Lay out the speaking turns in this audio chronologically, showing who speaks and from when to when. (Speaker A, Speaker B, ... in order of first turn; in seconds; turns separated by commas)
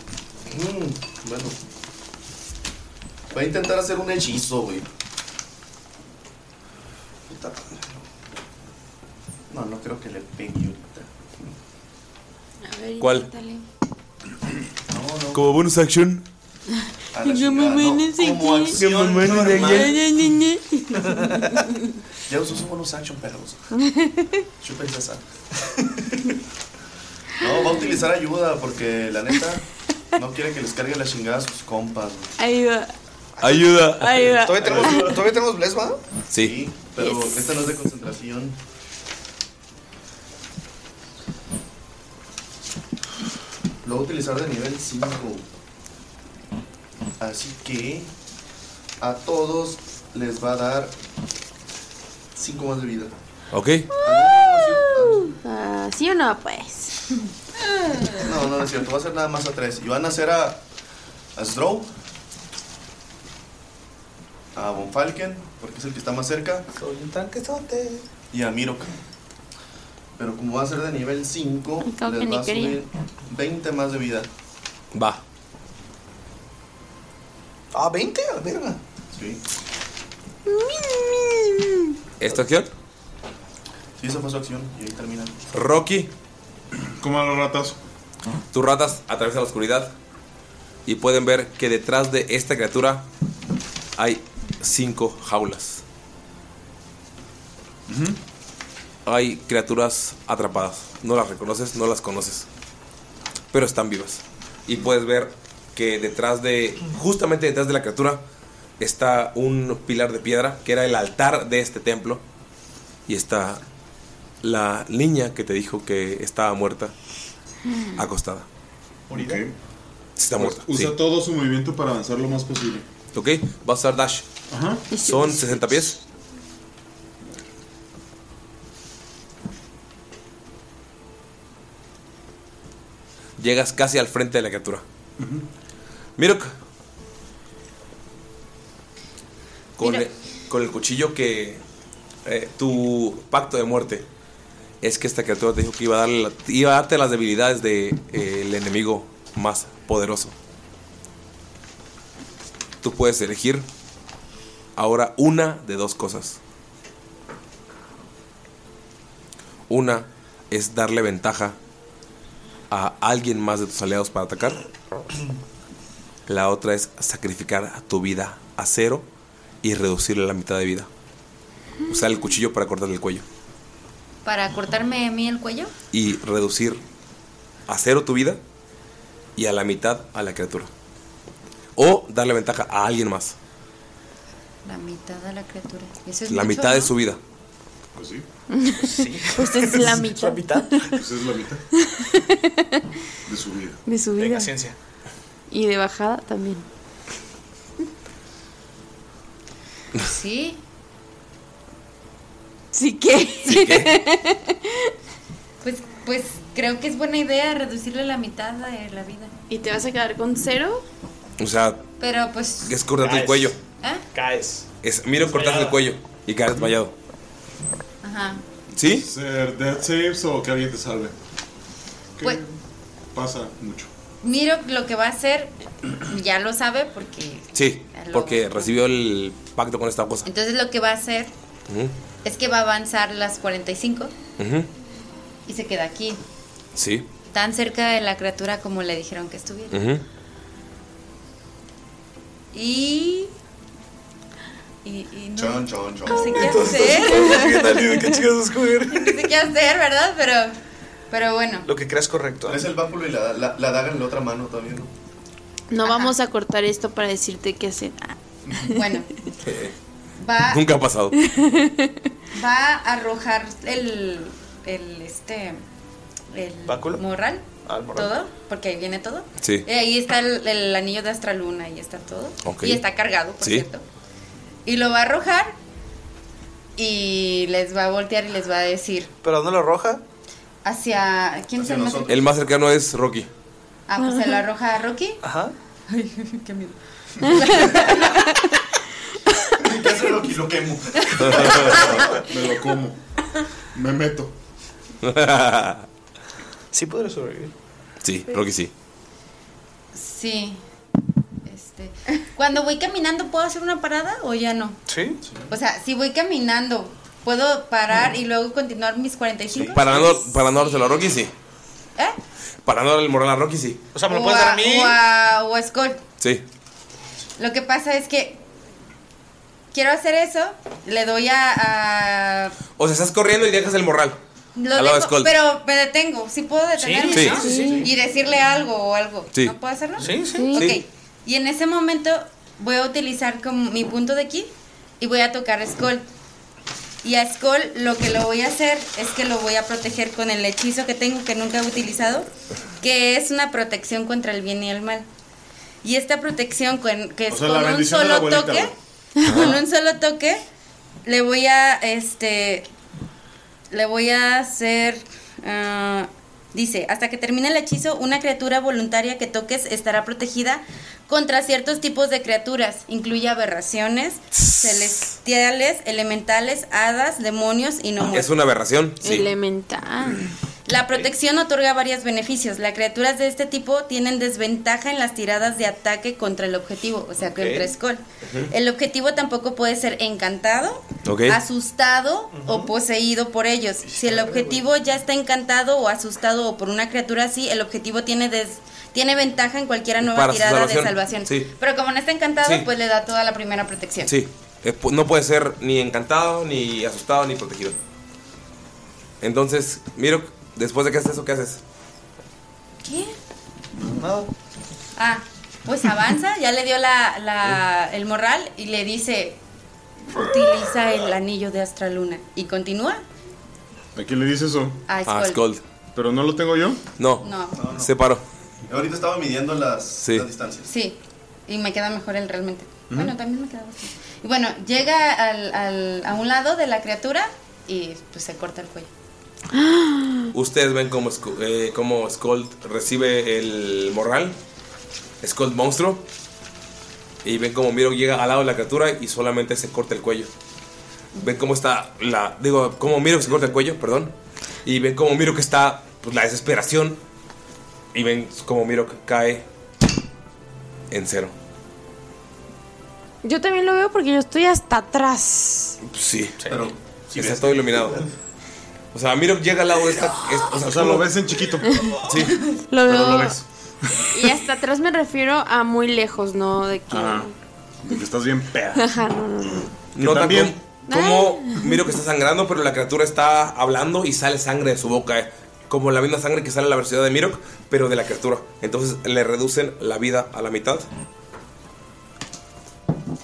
Speaker A: 0.5-1.6, Speaker A: 3.3-4.9, Speaker A: 7.3-8.0, Speaker A: 9.5-11.1, Speaker B: 12.6-13.6, Speaker C: 13.0-13.3, Speaker A: 14.9-15.5, Speaker C: 15.3-16.2, Speaker A: 17.1-20.0, Speaker B: 17.2-18.8, Speaker C: 18.8-19.9, Speaker D: 18.9-19.8, Speaker B: 19.6-21.8, Speaker D: 21.0-21.6, Speaker A: 22.3-23.7, Speaker B: 23.7-24.4, Speaker A: 24.6-25.2, Speaker A: 27.4-29.6, Speaker B: 27.6-28.0, Speaker A: 30.1-32.3, Speaker B: 32.4-32.9, Speaker D: 33.4-33.8, Speaker C: 33.4-34.3, Speaker B: 34.0-35.1, Speaker D: 34.3-36.0, Speaker A: 34.6-35.1, Speaker C: 36.3-36.6, Speaker A: 36.4-38.6, Speaker B: 37.0-37.5, Speaker A: 43.8-45.4, Speaker A: 47.2-48.1, Speaker A: 49.0-50.9, Speaker A: 52.3-53.1, Speaker C: 53.5-53.9, Speaker B: 53.9-57.2, Speaker A: 54.0-55.4, Speaker A: 58.2-60.6, Speaker A: 61.4-61.9, Speaker A: 64.5-66.7, Speaker D: 66.7-68.0, Speaker A: 68.3-68.9, Speaker A: 70.2-74.3, Speaker B: 71.8-72.8, Speaker C: 74.9-75.2, Speaker D: 77.7-78.8, Speaker A: 79.1-79.4, Speaker B: 80.5-81.9, Speaker C: 82.2-82.7, Speaker A: 84.0-85.4, Speaker C: 85.5-86.1, Speaker E: 87.0-87.8, Speaker C: 88.5-89.9, Speaker C: 90.8-93.1, Speaker C: 94.0-95.8, Speaker E: 97.9-98.2, Speaker C: 99.0-102.5, Speaker C: 103.5-108.2, Speaker C: 108.8-112.2, Speaker C: 113.1-113.6, Speaker C: 114.4-116.9, Speaker B: 117.7-117.9, Speaker C: 118.0-118.5, Speaker D: 119.1-119.4, Speaker E: 119.1-119.5, Speaker C: 120.2-120.9, Speaker E: 120.3-122.8, Speaker C: 123.1-124.3, Speaker E: 124.5-124.8, Speaker B: 124.9-125.8, Speaker C: 124.9-126.0, Speaker C: 133.4-134.8, Speaker E: 135.2-135.4, Speaker C: 136.2-136.5, Speaker C: 139.8-141.6, Speaker F: 139.8-140.1, Speaker C: 142.2-144.1, Speaker C: 144.8-150.3, Speaker C: 152.8-153.6, Speaker C: 154.8-156.4, Speaker C: 159.7-161.6, Speaker C: 162.7-164.6, Speaker C: 166.3-169.1, Speaker C: 169.6-170.9, Speaker C: 171.9-173.2, Speaker F: 174.2-175.7, Speaker C: 175.9-176.8, Speaker C: 177.7-178.4, Speaker C: 179.3-180.7, Speaker C: 181.8-183.3, Speaker F: 184.6-186.9, Speaker C: 186.3-187.2, Speaker E: 187.9-188.2, Speaker B: 188.5-190.9, Speaker D: 188.8-191.0, Speaker E: 190.9-191.6, Speaker B: 191.7-192.8, Speaker E: 193.2-193.8, Speaker B: 193.8-194.5, Speaker D: 194.2-194.8, Speaker B: 195.5-196.7, Speaker F: 200.0-200.6, Speaker B: 202.7-204.9, Speaker C: 203.4-203.9, Speaker F: 205.6-209.3, Speaker B: 209.5-210.8, Speaker C: 211.4-211.8, Speaker F: 212.0-212.7, Speaker C: 212.7-213.6, Speaker D: 213.0-213.5, Speaker D: 214.1-214.7, Speaker C: 214.8-216.9, Speaker D: 215.2-215.8, Speaker F: 218.0-218.4, Speaker C: 218.7-219.1, Speaker E: 218.8-221.1, Speaker E: 222.2-222.6, Speaker E: 223.1-223.9, Speaker F: 224.2-225.5, Speaker F: 226.1-228.8, Speaker C: 227.5-230.3, Speaker F: 230.2-231.3, Speaker C: 231.7-231.9, Speaker F: 232.2-234.1, Speaker C: 234.4-234.7, Speaker F: 235.5-236.2, Speaker C: 236.7-237.1, Speaker F: 237.3-239.8, Speaker C: 239.7-240.0, Speaker F: 242.5-243.3, Speaker F: 244.8-247.7, Speaker A: 245.3-246.9, Speaker D: 246.3-249.3, Speaker B: 247.1-247.5, Speaker F: 248.9-250.6, Speaker F: 251.1-251.7, Speaker D: 251.6-252.6, Speaker A: 252.5-254.9, Speaker B: 255.7-258.9, Speaker F: 255.8-256.1, Speaker F: 258.7-259.1, Speaker C: 259.4-259.7, Speaker F: 260.2-260.7, Speaker C: 260.4-261.2, Speaker B: 261.2-261.9, Speaker F: 262.3-265.6, Speaker F: 266.3-273.8, Speaker D: 266.6-267.0, Speaker D: 267.6-268.1, Speaker C: 272.4-272.8, Speaker F: 274.6-275.6, Speaker F: 276.8-279.1, Speaker D: 279.2-280.0, Speaker F: 280.6-282.2, Speaker A: 281.6-282.2, Speaker C: 282.1-283.3, Speaker F: 283.9-285.2, Speaker B: 284.0-284.4, Speaker D: 285.2-285.5, Speaker F: 285.9-288.3, Speaker B: 287.3-287.8, Speaker A: 289.6-292.2, Speaker C: 291.2-291.8, Speaker E: 291.7-293.0, Speaker E: 293.7-294.3, Speaker C: 295.0-295.9, Speaker D: 296.7-297.5, Speaker C: 298.0-298.7, Speaker F: 299.9-300.6, Speaker F: 301.4-304.8, Speaker D: 304.9-305.2, Speaker F: 305.5-310.9, Speaker C: 309.7-311.3, Speaker C: 312.6-313.9, Speaker D: 313.9-315.0, Speaker F: 314.1-316.0, Speaker F: 317.4-318.4, Speaker F: 319.7-322.6, Speaker C: 322.8-324.2, Speaker F: 324.6-336.1, Speaker C: 324.7-325.3, Speaker D: 326.8-327.9, Speaker C: 327.1-327.4, Speaker B: 327.3-327.8, Speaker D: 330.0-330.7, Speaker B: 330.3-330.7, Speaker F: 337.0-342.3, Speaker F: 342.8-345.1, Speaker F: 345.8-348.7, Speaker E: 347.3-348.7, Speaker C: 349.2-349.6, Speaker F: 349.2-350.4, Speaker F: 351.1-352.7, Speaker F: 353.7-368.3, Speaker C: 364.4-365.1, Speaker C: 368.1-369.3, Speaker B: 369.0-370.3, Speaker F: 370.7-394.1, Speaker D: 377.3-377.7, Speaker C: 378.2-378.5, Speaker C: 381.0-381.4, Speaker D: 382.3-382.7, Speaker D: 383.9-384.6, Speaker C: 390.0-391.5, Speaker C: 394.1-397.8, Speaker C: 399.2-401.6, Speaker E: 403.8-404.0, Speaker D: 403.9-404.3, Speaker F: 404.9-409.4, Speaker F: 410.1-413.0, Speaker E: 413.9-414.8, Speaker F: 414.9-415.4, Speaker C: 415.1-415.6, Speaker E: 415.9-416.8, Speaker C: 417.0-418.2, Speaker F: 417.2-417.6, Speaker A: 417.5-417.9, Speaker A: 418.7-420.7, Speaker F: 420.7-428.9, Speaker B: 429.5-430.3, Speaker C: 430.3-434.4, Speaker C: 435.2-436.0, Speaker C: 437.2-440.3, Speaker C: 441.2-444.1, Speaker C: 444.6-447.0, Speaker C: 447.9-449.4, Speaker C: 450.9-451.3, Speaker B: 453.2-455.8, Speaker C: 455.8-456.4, Speaker D: 456.4-456.7, Speaker A: 456.5-458.0, Speaker C: 457.1-458.0, Speaker C: 458.9-461.1, Speaker E: 460.5-461.9, Speaker B: 461.7-461.9, Speaker C: 462.1-462.4, Speaker B: 462.7-463.4, Speaker B: 464.0-467.3, Speaker E: 466.9-467.3, Speaker E: 467.8-468.9, Speaker B: 468.7-469.7, Speaker C: 469.9-480.9, Speaker E: 469.9-470.6, Speaker B: 470.9-471.8